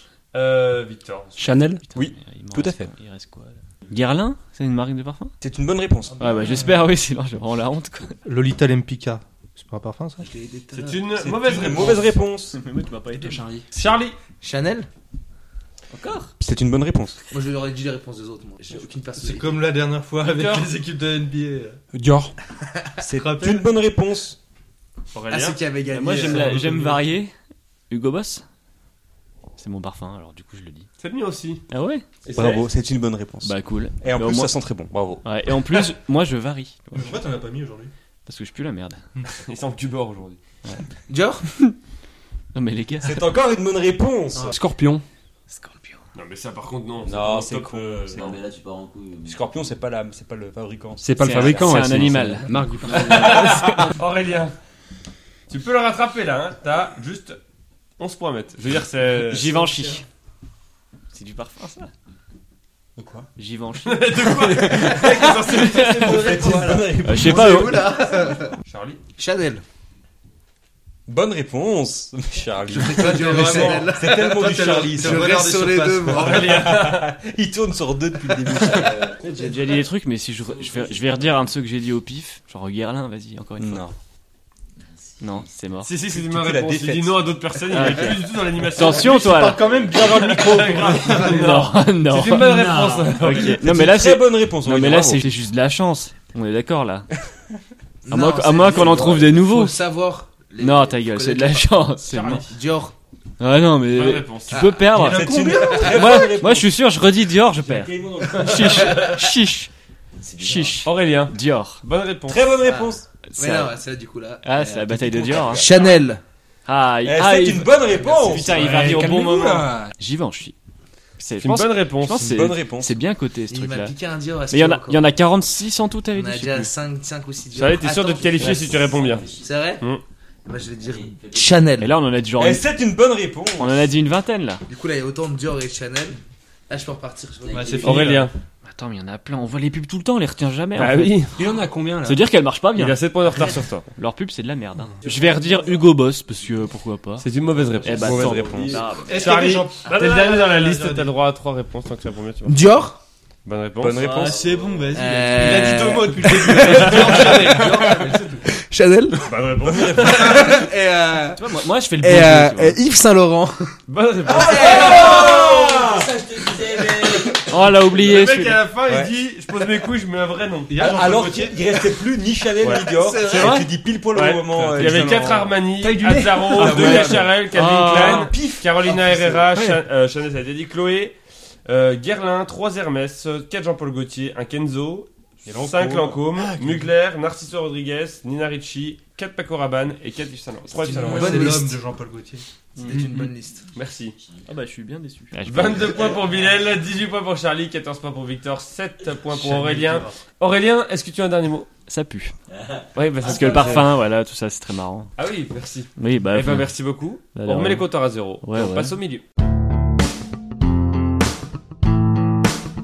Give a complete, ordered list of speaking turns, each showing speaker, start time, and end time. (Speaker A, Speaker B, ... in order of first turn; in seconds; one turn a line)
Speaker A: 0.3-1.5
Speaker B: 1.4-1.8
Speaker C: 1.9-5.3
Speaker D: 1.9-2.9
Speaker D: 5.4-6.5
Speaker E: 6.1-6.8
Speaker C: 6.2-8.2
Speaker F: 8.2-10.3
Speaker E: 10.2-11.0
Speaker A: 10.7-12.2
Speaker D: 11.2-12.6
Speaker C: 12.5-13.4
Speaker B: 13.1-13.7
Speaker A: 13.7-14.1
Speaker E: 14.4-14.9
Speaker C: 15.9-16.3
Speaker D: 16.4-17.2
Speaker E: 17.3-19.6
Speaker F: 19.2-21.8
Speaker A: 20.2-20.7
Speaker B: 21.9-22.3
Speaker D: 23.0-24.4
Speaker F: 23.1-23.7
Speaker A: 25.1-25.6
Speaker E: 25.3-27.0
Speaker C: 25.9-27.3
Speaker F: 26.1-27.0
Speaker C: 27.9-28.4
Speaker C: 29.6-30.9
Speaker A: 31.0-31.6
Speaker C: 31.7-32.0
Speaker A: 32.2-32.7
Speaker D: 32.3-35.2
Speaker C: 33.4-34.5
Speaker C: 35.2-37.2
Speaker F: 36.9-37.9
Speaker C: 38.2-39.0
Speaker A: 39.3-40.4
Speaker E: 41.1-41.5
Speaker C: 42.5-43.3
Speaker D: 43.0-44.5
Speaker B: 44.4-45.0
Speaker C: 45.5-46.0
Speaker A: 46.1-48.4
Speaker D: 47.0-48.4
Speaker G: 48.1-49.5
Speaker D: 49.2-52.4
Speaker B: 51.0-53.3
Speaker C: 51.2-54.0
Speaker A: 52.9-54.5
Speaker A: 55.5-57.4
Speaker A: 58.0-59.6
Speaker C: 59.2-60.0
Speaker C: 61.1-61.9
Speaker D: 63.0-63.3
Speaker C: 63.4-66.3
Speaker A: 63.8-66.2
Speaker F: 65.2-66.3
Speaker D: 66.0-67.7
Speaker E: 66.0-68.5
Speaker C: 67.0-68.0
Speaker A: 68.6-69.0
Speaker E: 69.2-69.6
Speaker D: 71.1-75.4
Speaker E: 72.7-76.5
Speaker F: 72.8-76.7
Speaker A: 76.1-77.1
Speaker D: 76.3-79.0
Speaker G: 78.8-79.1
Speaker E: 79.2-79.5
Speaker C: 79.3-83.9
Speaker G: 80.5-81.4
Speaker D: 83.6-83.9
Speaker G: 84.8-85.5
Speaker C: 85.2-85.9
Speaker A: 85.8-93.6
Speaker D: 86.1-87.3
Speaker C: 87.7-90.0
Speaker F: 88.8-91.6
Speaker C: 91.0-97.1
Speaker F: 92.2-93.6
Speaker D: 93.6-95.2
Speaker E: 98.0-102.9
Speaker C: 98.1-99.8
Speaker C: 100.6-102.5
Speaker A: 102.0-102.5
Speaker C: 103.4-109.7
Speaker A: 103.9-104.7
Speaker E: 104.5-104.9
Speaker F: 104.9-106.2
Speaker D: 104.9-106.8
Speaker E: 105.5-106.1
Speaker D: 107.5-109.0
Speaker G: 110.2-110.8
Speaker C: 110.4-111.8
Speaker A: 110.8-112.4
Speaker D: 112.3-113.0
Speaker E: 112.6-116.2
Speaker C: 113.3-113.8
Speaker C: 114.4-115.7
Speaker D: 114.9-115.8
Speaker C: 116.7-120.5
Speaker D: 117.0-119.9
Speaker B: 118.6-119.8
Speaker C: 121.2-123.9
Speaker A: 121.4-122.3
Speaker D: 122.2-123.0
Speaker E: 123.5-125.0
Speaker C: 124.5-126.7
Speaker E: 126.1-128.8
Speaker A: 127.5-129.3
Speaker G: 128.4-129.5
Speaker E: 129.4-129.8
Speaker E: 130.4-131.9
Speaker G: 130.8-131.7
Speaker C: 131.8-132.6
Speaker D: 132.4-133.9
Speaker C: 133.6-134.6
Speaker E: 134.7-138.0
Speaker G: 137.4-138.2
Speaker F: 137.5-138.3
Speaker A: 137.8-138.3
Speaker C: 138.6-141.4
Speaker A: 140.8-141.2
Speaker B: 141.3-142.2
Speaker C: 142.0-147.3
Speaker A: 142.7-143.9
Speaker A: 147.2-152.6
Speaker C: 147.8-149.4
Speaker D: 147.9-148.9
Speaker F: 149.1-151.1
Speaker E: 152.5-153.0
Speaker A: 153.4-154.1
Speaker D: 153.8-154.4
Speaker G: 154.0-155.1
Speaker C: 154.0-155.9
Speaker E: 154.9-159.3
Speaker F: 155.2-158.4
Speaker A: 156.6-157.8
Speaker A: 159.2-160.6
Speaker D: 159.7-160.1
Speaker E: 159.9-163.7
Speaker C: 161.3-162.8
Speaker A: 163.9-165.5
Speaker D: 164.3-166.0
Speaker E: 164.4-165.1
Speaker G: 164.4-167.5
Speaker C: 167.5-168.6
Speaker A: 168.0-171.1
Speaker F: 170.7-171.6
Speaker D: 170.8-175.6
Speaker A: 172.6-173.6
Speaker E: 172.6-173.7
Speaker A: 174.1-191.6
Speaker B: 174.7-175.1
Speaker B: 175.8-176.9
Speaker D: 176.5-179.1
Speaker C: 176.7-176.9
Speaker C: 177.5-178.4
Speaker D: 185.4-186.2
Speaker E: 190.8-191.8
Speaker F: 190.8-192.4
Speaker E: 192.8-193.7
Speaker C: 192.8-193.2
Speaker A: 193.7-194.2
Speaker C: 194.5-196.1
Speaker A: 195.4-201.7
Speaker F: 199.3-200.1
Speaker C: 201.9-202.3
Speaker G: 202.5-203.8
Speaker A: 202.9-203.9
Speaker C: 203.2-205.1
Speaker A: 205.2-209.2
Speaker C: 206.0-206.7
Speaker C: 207.3-207.9
Speaker C: 208.4-208.9